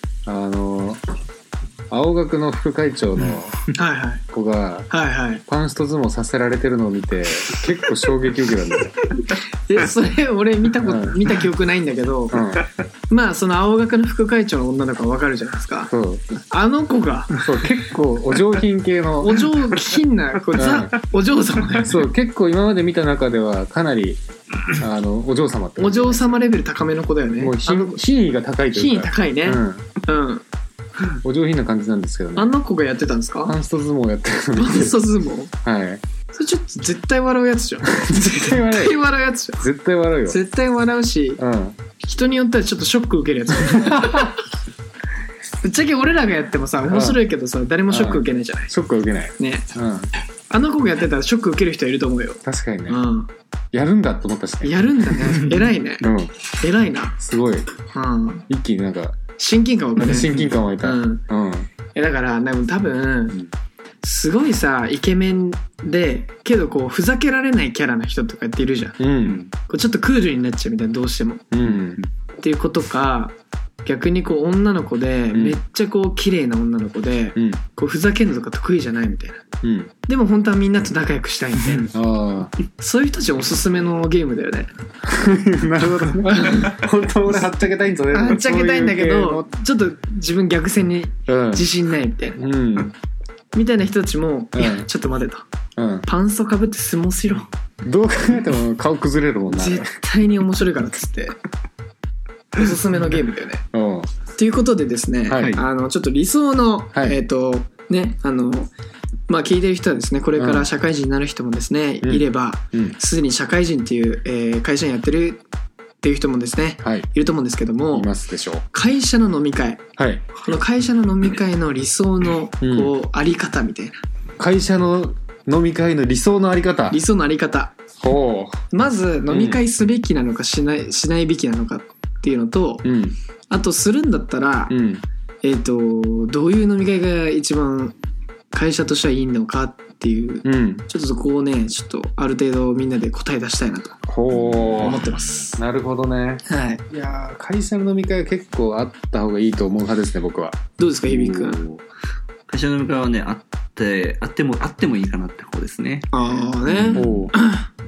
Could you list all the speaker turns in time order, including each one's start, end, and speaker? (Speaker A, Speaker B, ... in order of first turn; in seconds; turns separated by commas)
Speaker A: 0.2-1.0, Speaker A: 1.9-3.6, Speaker B: 3.7-4.2, Speaker A: 4.3-4.9, Speaker B: 4.9-5.4, Speaker A: 5.5-9.0, Speaker B: 9.3-12.5, Speaker A: 10.8-11.2, Speaker A: 12.3-12.7, Speaker B: 13.1-15.9, Speaker A: 15.9-16.4, Speaker B: 16.5-17.4, Speaker A: 17.3-19.6, Speaker B: 19.2-22.0, Speaker A: 20.6-20.9, Speaker A: 21.8-26.3, Speaker B: 25.8-28.0, Speaker A: 27.4-29.9, Speaker B: 28.7-30.4, Speaker A: 31.2-32.5, Speaker B: 32.4-33.5, Speaker A: 33.4-35.0, Speaker B: 34.5-35.5, Speaker A: 35.6-36.0, Speaker B: 36.3-39.6, Speaker A: 37.9-39.0, Speaker A: 39.6-40.4, Speaker B: 40.3-41.4, Speaker A: 41.4-41.8, Speaker B: 42.0-44.4, Speaker A: 43.6-44.3, Speaker B: 45.6-48.7, Speaker A: 46.9-47.2, Speaker A: 47.9-50.1, Speaker B: 49.4-49.7, Speaker B: 50.5-53.3, Speaker A: 52.4-53.0, Speaker A: 53.7-55.4, Speaker B: 54.6-56.1, Speaker A: 56.0-56.3, Speaker B: 56.6-57.1, Speaker A: 57.2-57.7, Speaker B: 57.9-58.4, Speaker A: 58.5-59.2, Speaker B: 59.4-61.2, Speaker A: 60.0-61.7, Speaker B: 61.9-63.4, Speaker B: 64.0-69.0, Speaker A: 69.0-69.4, Speaker C: 69.2-69.5, Speaker B: 69.7-71.5, Speaker A: 71.5-72.0, Speaker C: 71.7-72.1, Speaker B: 72.4-73.3, Speaker B: 73.8-79.4, Speaker A: 75.3-75.6, Speaker A: 77.3-77.6, Speaker A: 79.6-79.9, Speaker B: 80.1-81.9, Speaker A: 81.9-82.5, Speaker B: 82.8-84.7, Speaker A: 85.0-89.5, Speaker B: 86.3-86.8, Speaker B: 88.1-92.4, Speaker A: 91.3-91.7, Speaker A: 92.4-92.9, Speaker B: 93.5-95.4, Speaker A: 94.5-94.9, Speaker A: 95.8-96.0, Speaker B: 96.0-97.5, Speaker A: 97.8-99.9, Speaker B: 99.5-101.4, Speaker B: 102.5-103.6, Speaker A: 103.7-104.1, Speaker B: 104.3-108.7, Speaker A: 105.3-105.6, Speaker B: 109.3-115.4, Speaker A: 110.3-110.7, Speaker A: 112.0-113.0, Speaker B: 116.0-118.1, Speaker A: 116.8-117.1, Speaker A: 117.9-118.6, Speaker B: 118.7-119.8, Speaker A: 120.0-120.2, Speaker B: 120.4-124.0, Speaker A: 122.6-122.9, Speaker A: 124.4-127.0, Speaker B: 126.9-127.7, Speaker A: 128.0-128.6, Speaker B: 128.7-132.9, Speaker A: 129.3-129.6, Speaker A: 132.8-133.2, Speaker B: 133.5-134.7, Speaker A: 134.7-135.0, Speaker B: 135.4-137.9, Speaker B: 138.5-144.0, Speaker A: 140.4-140.8, Speaker A: 144.1-145.0, Speaker C: 144.4-145.4, Speaker B: 144.8-145.6, Speaker A: 145.6-150.6, Speaker B: 146.4-146.8, Speaker B: 150.8-151.6, Speaker C: 151.1-151.8, Speaker C: 152.5-157.3, Speaker B: 156.1-157.7, Speaker A: 156.9-157.3